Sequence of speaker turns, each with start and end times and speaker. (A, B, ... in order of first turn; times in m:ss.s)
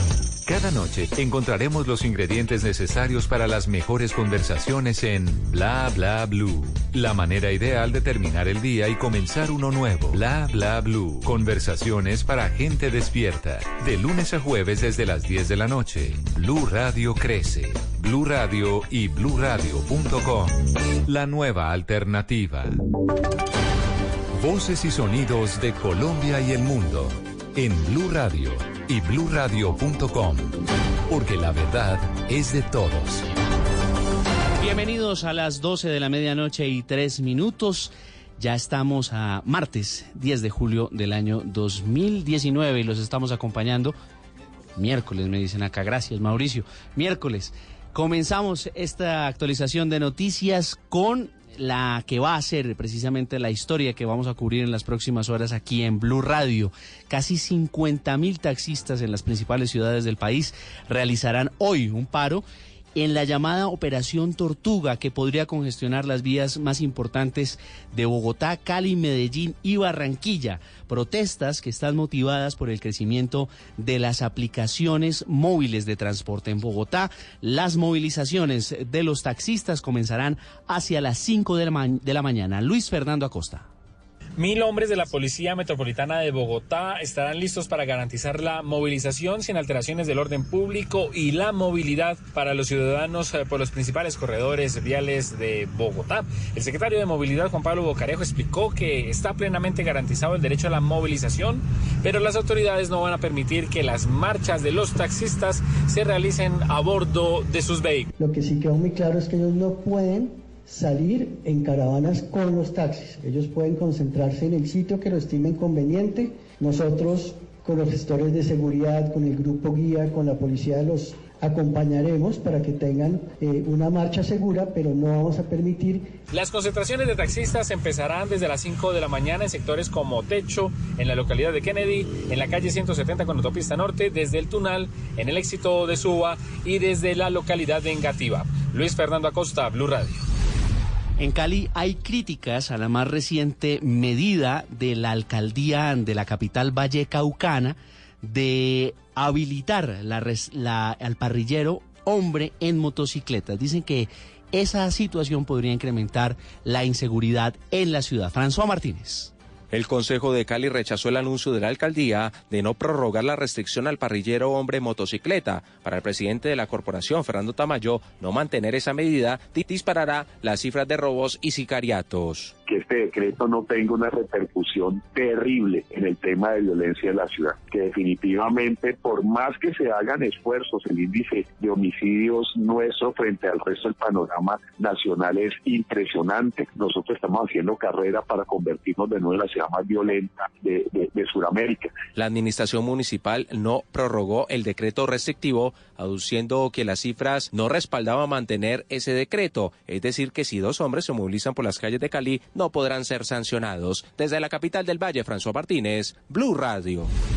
0:00.4-0:22.8 A
0:24.3-0:30.5 A
0:31.1-0:33.2 A
0:34.6-0:44.0 B
0:44.8-1:02.4 B
1:03.0-1:23.7 B
1:24.4-1:48.1 C
1:48.2-2:06.1 D
2:06.3-2:20.2 C
2:21.2-2:39.3 B
2:39.7-2:52.5 E
2:52.7-3:11.9 F
3:12.1-3:27.1 E